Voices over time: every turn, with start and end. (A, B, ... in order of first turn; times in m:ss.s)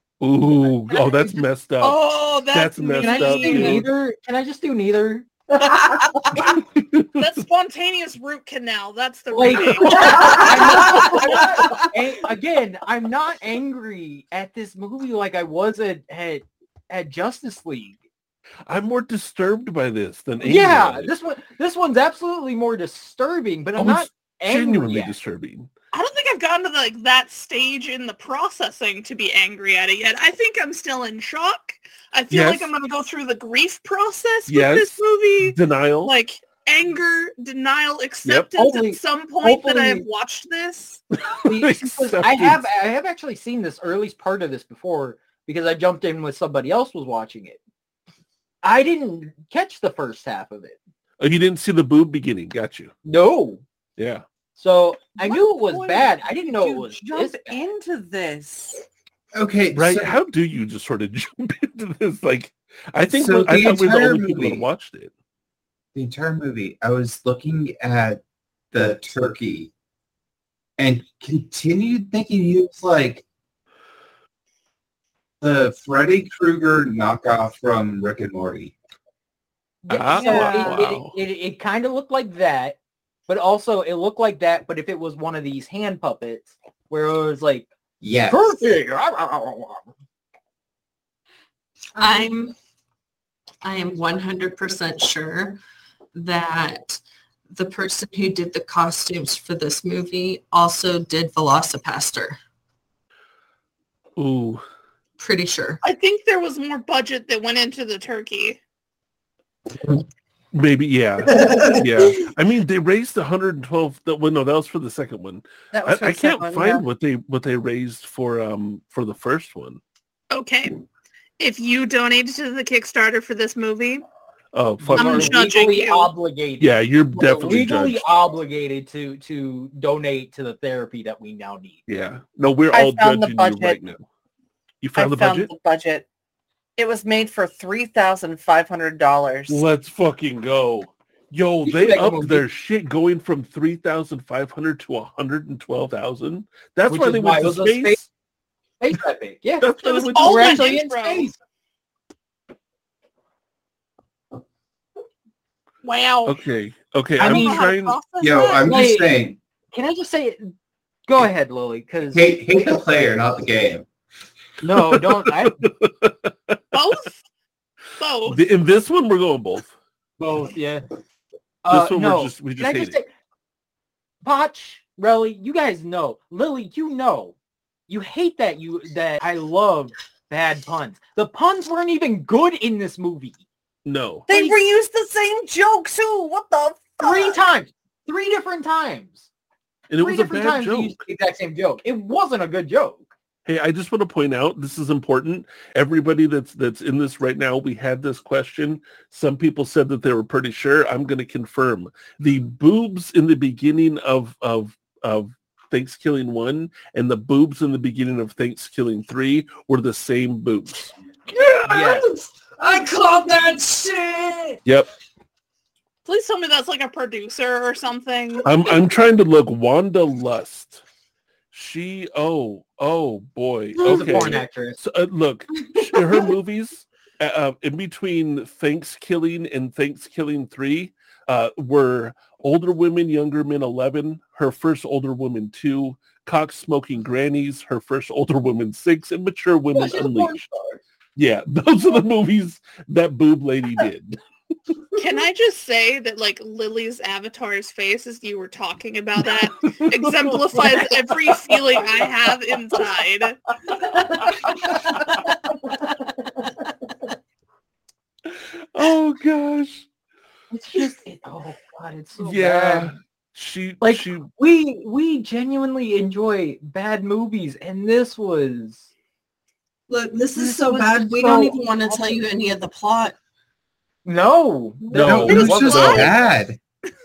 0:00.2-0:03.9 A
0:01.8-0:03.9 B
0:03.0-0:06.0 C
0:06.4-0:07.3 A
0:07.2-0:11.4 B
0:09.3-0:18.0 C
0:09.9-0:10.9 D
0:18.7-0:21.1 A
0:20.4-0:25.2 C
0:23.8-0:25.7 A
0:25.9-0:41.0 B
0:32.3-0:32.7 A
0:34.5-0:36.1 A
0:38.2-0:38.5 A
0:38.6-0:40.0 C
0:41.2-0:42.6 A
0:41.4-0:47.6 C
0:48.6-0:50.8 C
0:51.2-0:52.9 A
0:53.0-0:53.6 C
0:54.0-0:54.2 A
0:54.6-0:57.6 C
0:55.2-0:58.8 E
0:59.4-1:00.2 F
0:59.8-1:05.1 A
1:03.1-1:04.6 F
1:05.9-1:08.2 F
1:08.7-1:09.7 F
1:10.8-1:13.2 F
1:15.4-1:18.8 F
1:19.8-1:22.8 C
1:19.9-1:21.2 A
1:20.1-1:20.8 E
1:23.3-1:27.7 C
1:28.0-1:28.5 F
1:28.3-1:29.9 C
1:32.0-1:32.6 D
1:33.6-1:35.6 D
1:36.2-1:42.4 D
1:44.2-1:44.6 A
1:45.2-1:45.8 D
1:45.8-1:48.6 B
1:50.5-1:59.8 A
1:55.7-1:56.8 E
2:00.3-2:00.8 B
2:01.4-2:04.1 B
2:04.5-2:05.4 A
2:04.8-2:11.8 C
2:05.0-2:06.1 B
2:06.6-2:08.1 A
2:11.9-2:14.0 A
2:12.7-2:13.8 E
2:14.8-2:15.5 A
2:15.0-2:16.1 E
2:16.8-2:19.7 E
2:19.5-2:28.1 A
2:21.6-2:22.5 C
2:26.9-2:28.0 C
2:28.8-2:31.4 C
2:29.6-2:30.7 A
2:29.8-2:31.3 B
2:35.8-2:36.4 B
2:36.2-2:38.0 A
2:37.2-2:37.7 C
2:37.2-2:38.6 B
2:38.2-2:39.4 F
2:38.6-2:39.2 C
2:39.7-2:40.5 C
2:41.1-2:42.6 C
2:42.1-2:43.9 F
2:44.6-2:45.6 C
2:44.8-2:46.6 A
2:46.7-2:47.2 B
2:48.0-2:48.4 B
2:48.2-2:49.7 A
2:50.2-2:50.8 C
2:51.6-2:53.1 C
2:51.7-2:53.0 A
2:54.2-2:57.3 C
2:57.9-3:03.4 C
3:03.8-3:04.3 A
3:04.3-3:04.6 C
3:04.3-3:07.4 E
3:07.0-3:09.3 C
3:09.9-3:11.1 A
3:10.0-3:13.1 C
3:13.5-3:30.9 A
3:31.3-3:34.6 D
3:31.6-3:32.1 C
3:36.0-3:38.5 B
3:38.4-3:40.8 A
3:41.5-4:00.5 A
3:43.8-3:44.8 C
3:59.8-4:00.3 C
4:01.2-4:04.2 A
4:05.0-4:13.4 B
4:09.6-4:12.1 A
4:13.9-4:15.1 A
4:18.3-4:19.9 A
4:20.5-4:22.9 C
4:22.2-4:24.3 A
4:23.8-4:28.9 C
4:29.9-4:33.2 D
4:30.4-4:32.2 C
4:34.0-4:36.1 C
4:34.9-4:36.0 A
4:34.9-4:36.6 F
4:35.3-4:36.1 B